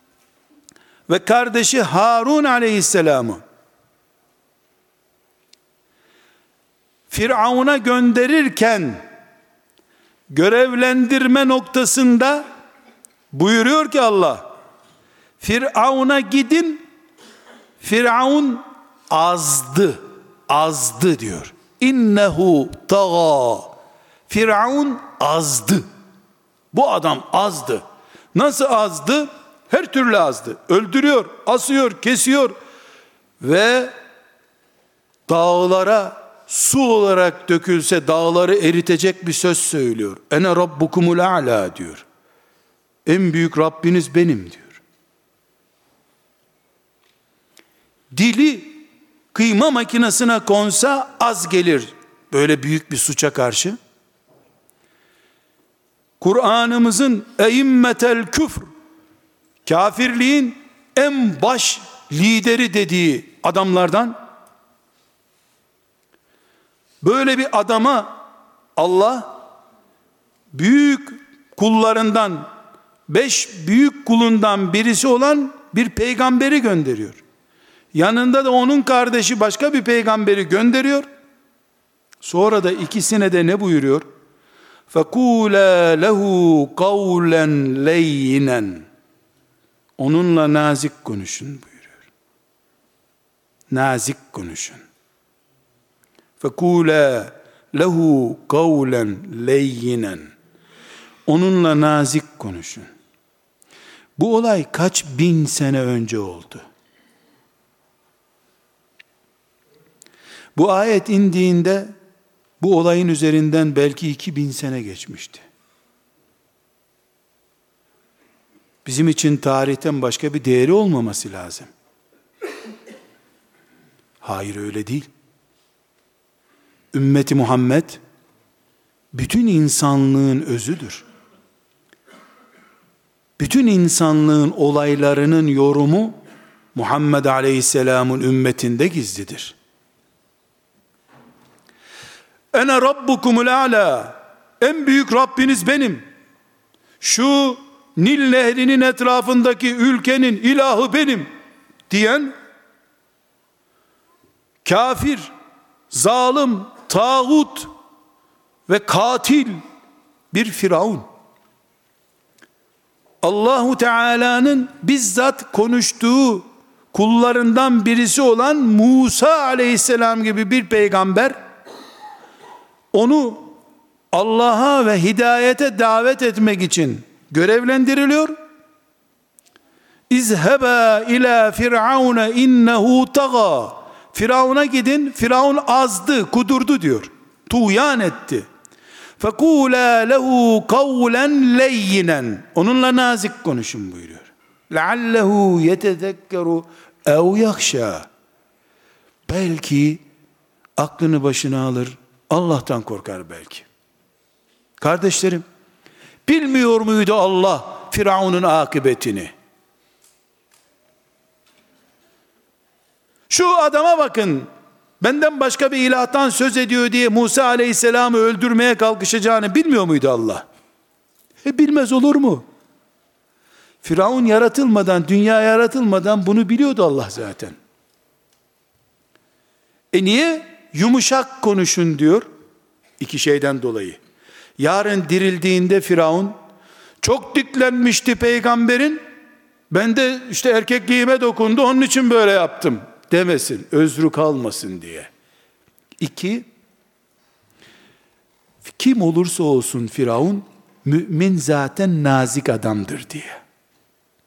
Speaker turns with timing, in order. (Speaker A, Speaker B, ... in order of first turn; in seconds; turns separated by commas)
Speaker A: 1.1-3.4, Speaker A: 7.1-9.0, Speaker A: 10.3-12.4, Speaker A: 13.3-14.4, Speaker A: 15.4-16.8, Speaker A: 17.8-23.7, Speaker A: 24.3-25.9, Speaker A: 26.7-27.8, Speaker A: 28.3-32.5, Speaker A: 33.4-33.9, Speaker A: 35.3-42.0, Speaker A: 43.0-44.8, Speaker A: 48.1-53.8, Speaker A: 56.2-58.6, Speaker A: 59.6-64.2, Speaker A: 67.0-68.2, Speaker A: 68.8-69.4, Speaker A: 70.5-72.5, Speaker A: 73.1-77.2, Speaker A: 77.9-81.1, Speaker A: 82.2-84.0, Speaker A: 84.9-88.8, Speaker A: 90.0-92.0, Speaker A: 93.7-94.8, Speaker A: 96.4-100.3, Speaker A: 101.3-102.9, Speaker A: 104.2-106.6, Speaker A: 110.5-111.9, Speaker A: 112.6-115.4, Speaker A: 118.8-121.7, Speaker A: 124.2-125.1, Speaker A: 126.9-128.0, Speaker A: 129.1-131.0, Speaker A: 133.4-136.2, Speaker A: 136.7-139.6, Speaker A: 142.5-146.0, Speaker A: 147.0-151.3, Speaker A: 151.9-152.3, Speaker A: 154.6-155.3, Speaker A: 155.9-157.7, Speaker A: 158.7-159.6, Speaker A: 160.3-161.0, Speaker A: 163.2-171.3, Speaker A: 172.9-173.5, Speaker A: 174.1-178.3, Speaker A: 180.1-188.4, Speaker A: 189.2-198.1, Speaker A: 199.3-200.0, Speaker A: 200.8-203.7, Speaker A: 204.8-205.4, Speaker A: 206.2-209.3, Speaker A: 213.3-214.5, Speaker A: 215.0-220.4, Speaker A: 221.4-222.4, Speaker A: 223.8-227.6, Speaker A: 229.9-232.3, Speaker A: 233.0-234.0, Speaker A: 234.6-236.3, Speaker A: 237.0-239.0, Speaker A: 239.7-245.1, Speaker A: 246.0-246.5, Speaker A: 248.6-253.4